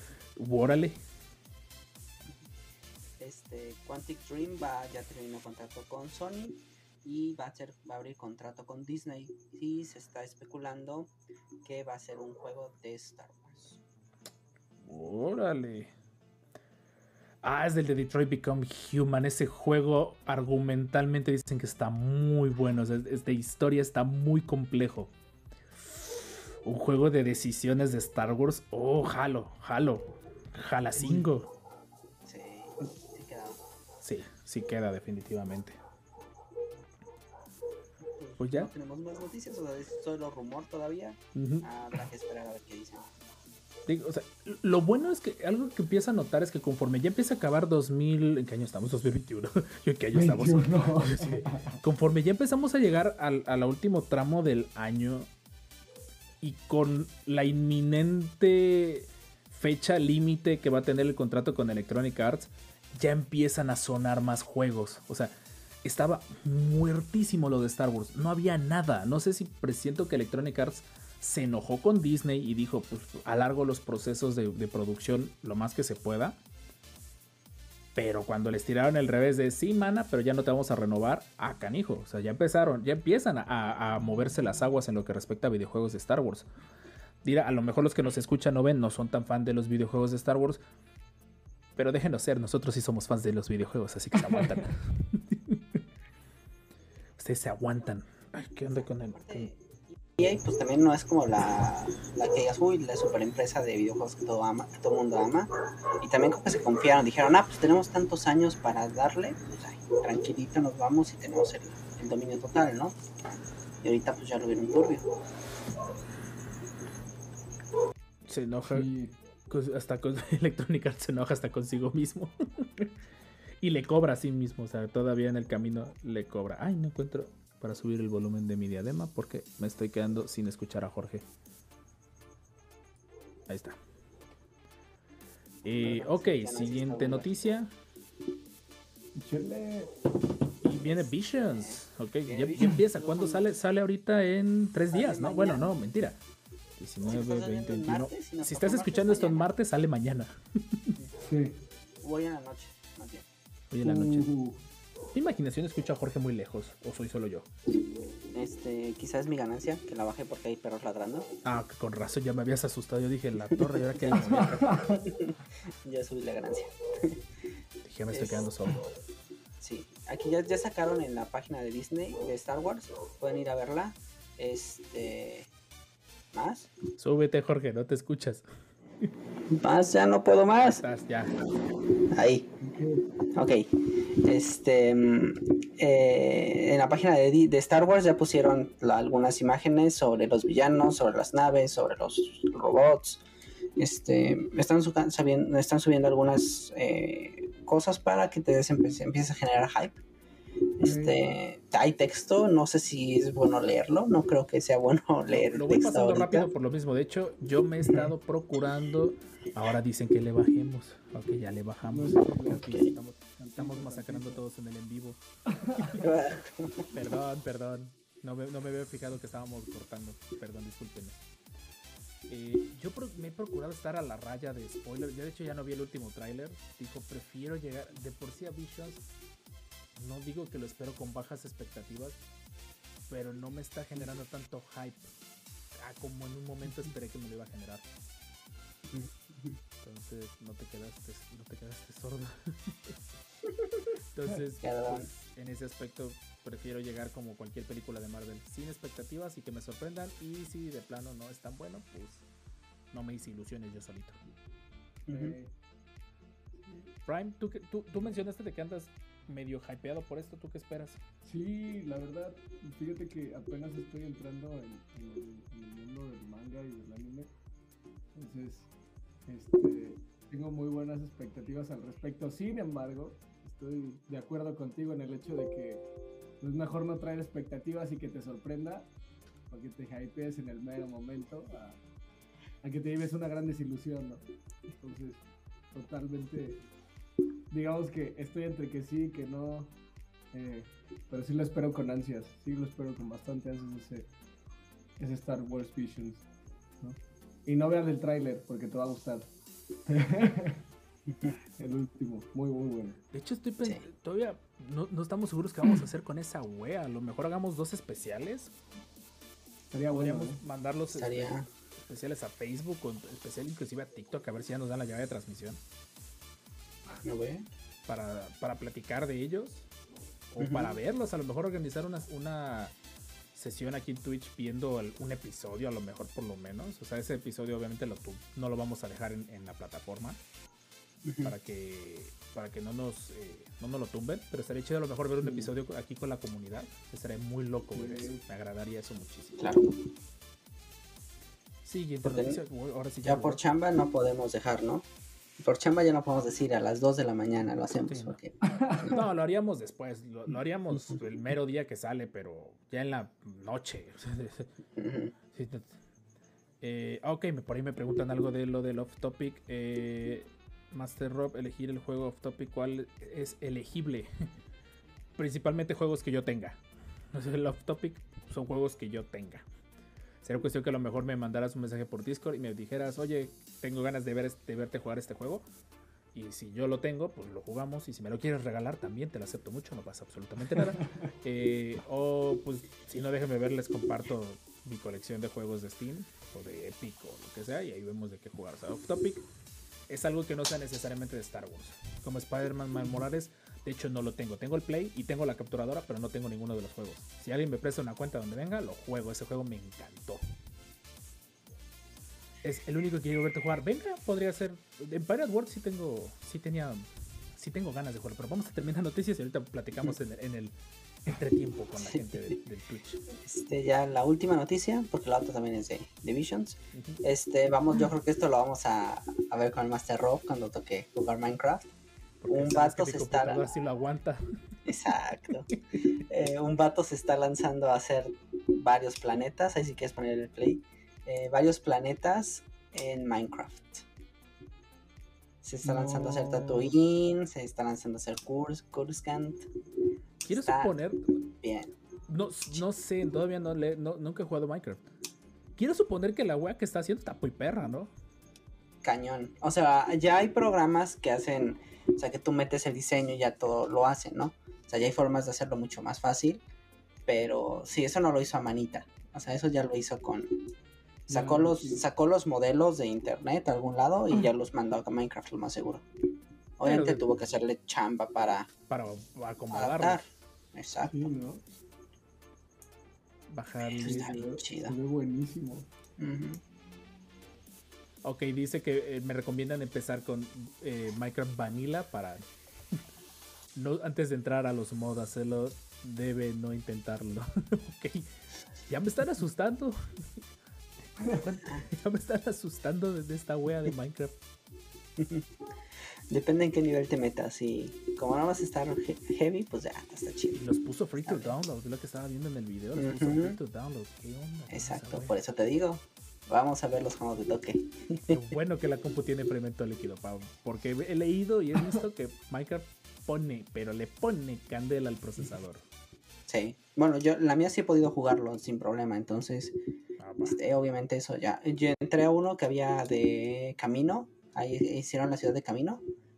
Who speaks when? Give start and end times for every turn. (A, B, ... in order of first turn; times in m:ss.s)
0:00.4-0:01.0 A
0:03.2-0:11.1 B
0:11.6-0:13.8 B
0:14.8-0:15.9 A
0:17.4-0:25.1 A
0:26.6-0:31.5 A
0:31.0-0:31.2 C
0:32.3-0:33.6 B
0:34.0-0:35.8 A
0:38.0-0:43.1 B
0:38.4-0:38.7 A
0:41.3-0:41.6 A
0:43.9-0:55.3 A
0:50.1-0:51.8 C
0:56.4-1:16.4 A
1:18.0-1:26.5 A
1:27.2-1:30.6 A
1:31.8-1:35.8 A
1:34.2-1:34.6 C
1:37.2-1:39.5 A
1:38.7-1:53.0 B
1:53.8-1:55.1 B
1:58.3-1:58.9 A
1:58.7-1:59.1 C
1:59.5-2:02.9 A
2:03.6-2:11.2 A
2:13.5-2:13.8 A
2:15.6-2:17.7 A
2:15.7-2:17.4 B
2:19.2-2:19.9 C
2:20.6-2:26.2 A
2:21.5-2:23.4 B
2:24.9-2:25.7 B
2:26.8-2:30.9 A
2:27.1-2:29.5 B
2:31.2-2:31.6 C
2:32.0-2:33.2 B
2:33.7-2:34.3 A
2:33.8-2:34.6 C
2:35.1-2:37.5 A
2:38.3-2:41.3 B
2:41.4-2:44.7 A
2:43.6-2:47.2 B
2:44.1-2:44.9 C
2:47.8-2:48.8 A
2:48.1-2:48.4 B
2:49.6-2:55.5 B
2:56.3-2:56.7 B
2:57.0-2:58.4 A
2:59.5-3:00.8 B
3:00.6-3:01.3 A
3:02.1-3:02.5 B
3:02.7-3:03.0 C
3:03.3-3:03.7 B
3:04.2-3:13.2 B
3:13.8-3:20.0 B
3:20.8-3:26.5 B
3:20.8-3:21.2 C
3:25.3-3:35.2 A
3:31.9-3:32.8 C
3:33.4-3:34.4 C
3:35.5-3:36.0 C
3:35.8-3:36.0 A
3:35.8-3:36.9 B
3:36.9-3:41.2 A
3:42.3-3:49.0 A
3:50.0-3:52.2 A
3:53.1-3:55.1 A
3:55.8-3:57.8 A
3:58.9-3:59.6 B
3:59.8-4:03.0 A
4:04.1-4:12.2 A
4:04.6-4:05.1 B
4:12.9-4:14.2 A
4:15.0-4:15.3 B
4:15.1-4:15.5 C
4:17.0-4:21.0 A
4:21.2-4:27.3 C
4:28.1-4:28.7 C
4:29.2-4:35.8 C
4:36.4-4:38.9 C
4:39.5-4:41.8 C
4:42.6-4:46.6 C
4:47.5-4:49.7 C
4:50.3-4:54.1 C
4:55.0-4:56.2 C
4:56.8-4:59.3 C
4:59.8-5:00.6 C
5:01.1-5:01.4 B
5:01.6-5:03.0 C
5:03.1-5:08.5 A
5:09.7-5:10.4 C
5:09.9-5:15.6 A
5:10.9-5:11.5 B
5:17.0-5:17.4 B
5:17.9-5:19.6 A
5:20.3-5:22.7 A
5:20.4-5:20.7 B
5:23.3-5:30.2 A
5:31.0-5:31.3 B
5:31.2-5:39.5 A
5:35.2-5:35.5 C
5:37.7-5:38.2 C
5:39.4-5:39.7 B
5:41.6-5:43.4 A
5:42.0-5:42.4 B
5:43.0-5:44.8 B
5:45.4-5:49.0 B
5:47.9-5:48.1 A
5:48.5-5:48.8 C
5:48.8-5:54.5 A
5:54.8-5:55.2 B
5:55.3-5:55.7 A
5:56.6-6:04.1 A
6:05.2-6:06.6 A
6:07.1-6:09.4 A
6:10.2-6:15.4 A
6:16.1-6:29.2 A
6:29.9-6:40.2 A
6:42.4-6:50.5 A
6:51.0-6:53.0 A
6:51.7-6:52.4 B
6:53.2-7:01.6 B
6:56.7-6:57.0 A
7:02.2-7:04.2 A
7:02.3-7:03.4 B
7:04.6-7:05.5 B
7:06.1-7:13.8 B
7:15.4-7:19.5 B
7:15.6-7:16.7 C
7:20.2-7:21.2 A
7:20.3-7:20.7 B
7:21.2-7:21.7 B
7:22.1-7:24.8 A
7:25.6-7:27.9 A
7:28.8-7:36.4 B
7:37.1-7:40.4 B
7:41.1-7:45.8 B
7:41.1-7:41.8 C
7:46.6-7:48.5 B
7:46.6-7:47.0 A
7:48.7-7:50.0 A
7:49.5-7:51.1 B
7:50.8-7:51.4 C
7:53.3-7:54.2 A
7:53.7-7:54.7 B
7:53.8-7:55.7 C
7:56.0-7:56.4 B
7:58.0-8:02.2 A
8:03.5-8:08.1 A
8:08.7-8:09.8 A
8:10.9-8:14.1 A
8:15.0-8:15.3 B
8:16.1-8:20.4 B
8:20.4-8:25.1 A
8:21.0-8:21.4 B
8:22.8-8:23.4 B
8:24.5-8:28.2 B
8:28.1-8:35.6 A
8:36.3-8:39.6 B
8:40.0-8:40.4 A
8:40.2-8:45.8 B